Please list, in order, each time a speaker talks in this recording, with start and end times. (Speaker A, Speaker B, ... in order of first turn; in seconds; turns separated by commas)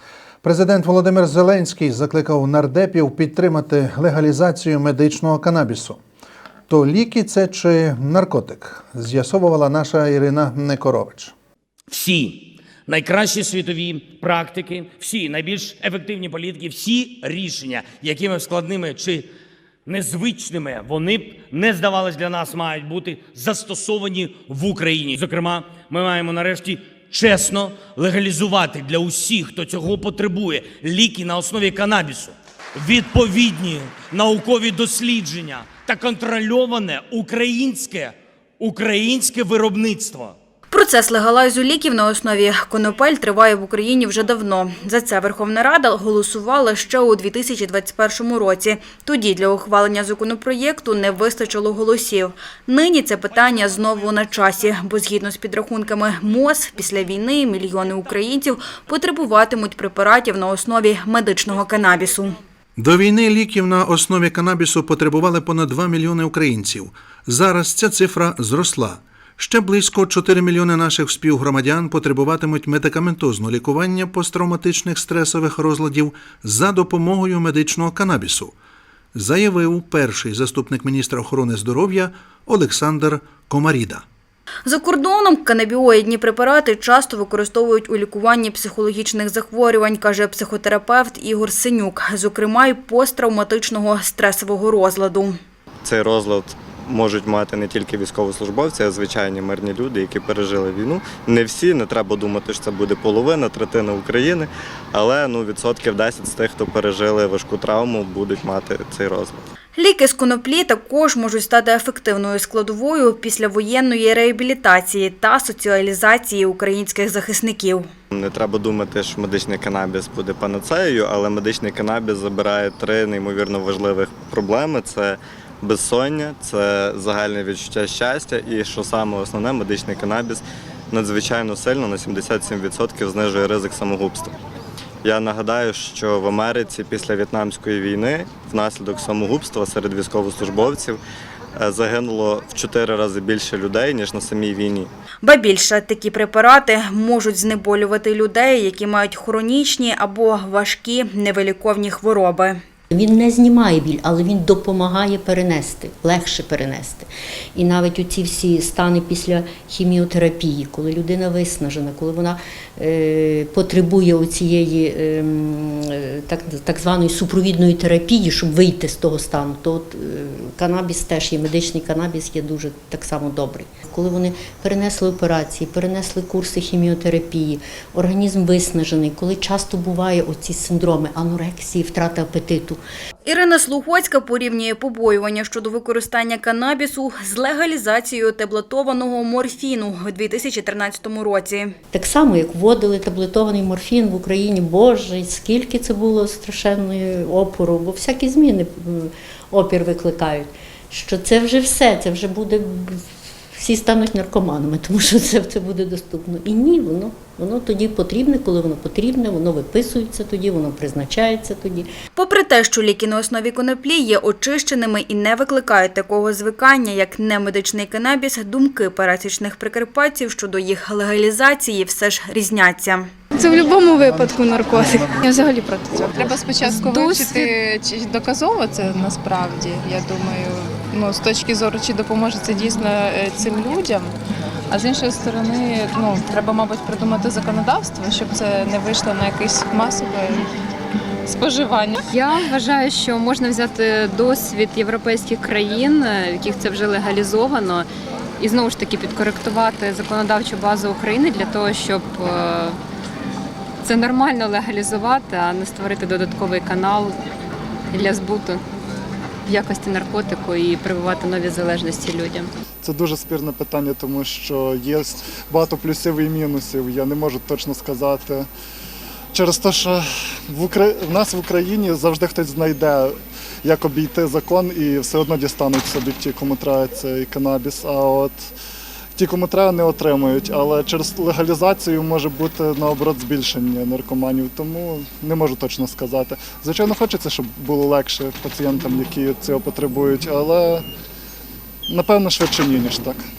Speaker A: 0.4-6.0, Speaker A: 6.7-11.3, Speaker B: 11.9-19.3, Speaker B: 19.9-40.3, Speaker C: 40.7-62.4, Speaker A: 62.8-78.5, Speaker A: 79.1-84.0, Speaker C: 84.7-95.3, Speaker D: 95.8-109.5, Speaker C: 109.8-117.9, Speaker D: 118.1-134.3, Speaker D: 135.0-141.0, Speaker D: 141.5-144.9, Speaker C: 145.2-152.6, Speaker E: 152.9-182.8, Speaker C: 183.2-191.7, Speaker E: 191.9-203.0, Speaker E: 203.5-211.9, Speaker C: 212.1-223.1, Speaker F: 223.4-226.1, Speaker G: 226.1-234.2, Speaker H: 226.7-227.4, Speaker G: 234.7-240.5, Speaker G: 241.3-242.0, Speaker H: 242.1-247.8, Speaker H: 248.4-252.7, Speaker H: 253.8-257.1, Speaker H: 257.9-258.6, Speaker H: 259.5-262.5, Speaker I: 262.8-268.5, Speaker I: 269.3-278.5, Speaker I: 279.2-290.9, Speaker I: 291.9-293.2